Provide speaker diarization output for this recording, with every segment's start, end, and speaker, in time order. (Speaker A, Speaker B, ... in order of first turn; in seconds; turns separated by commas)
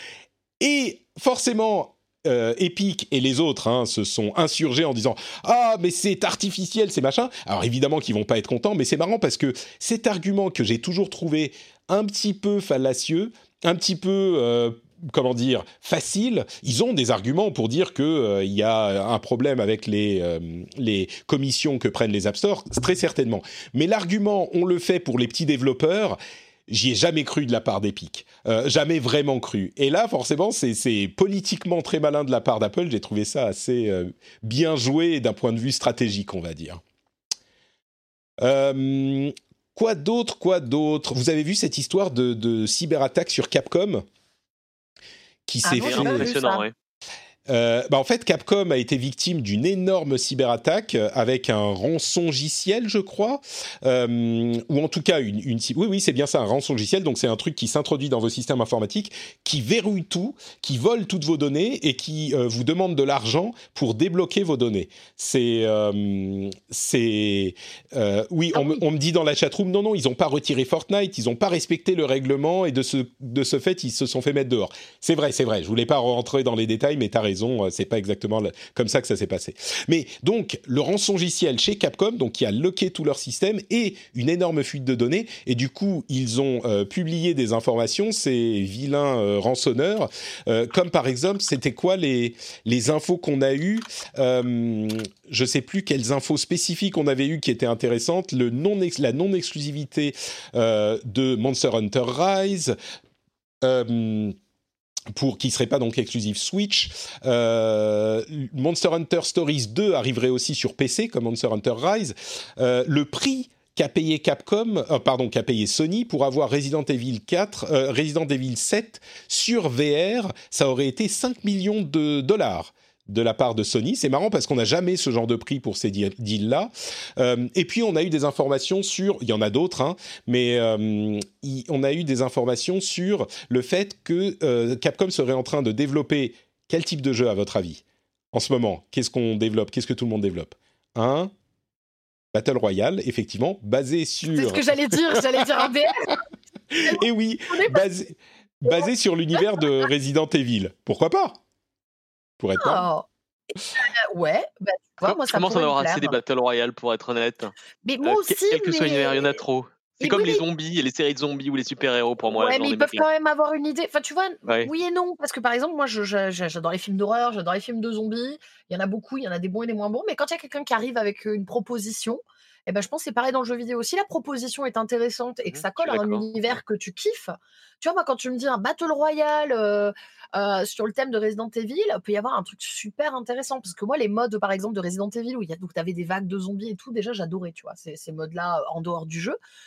Speaker A: 0.6-36.8, Speaker A: 38.4-44.0, Speaker A: 45.5-46.3, Speaker B: 45.6-46.6, Speaker C: 45.7-46.7, Speaker A: 47.5-102.7, Speaker B: 68.5-68.8, Speaker A: 103.6-104.3, Speaker A: 105.1-137.8, Speaker A: 138.3-141.3, Speaker A: 142.3-145.6, Speaker B: 144.3-146.1, Speaker A: 146.7-151.4, Speaker B: 146.8-147.8, Speaker B: 148.7-149.4, Speaker A: 152.4-152.9, Speaker B: 152.6-153.1, Speaker B: 153.7-156.2, Speaker C: 155.0-163.0, Speaker B: 157.8-159.3, Speaker B: 160.0-160.4, Speaker B: 162.3-189.4, Speaker C: 175.5-176.2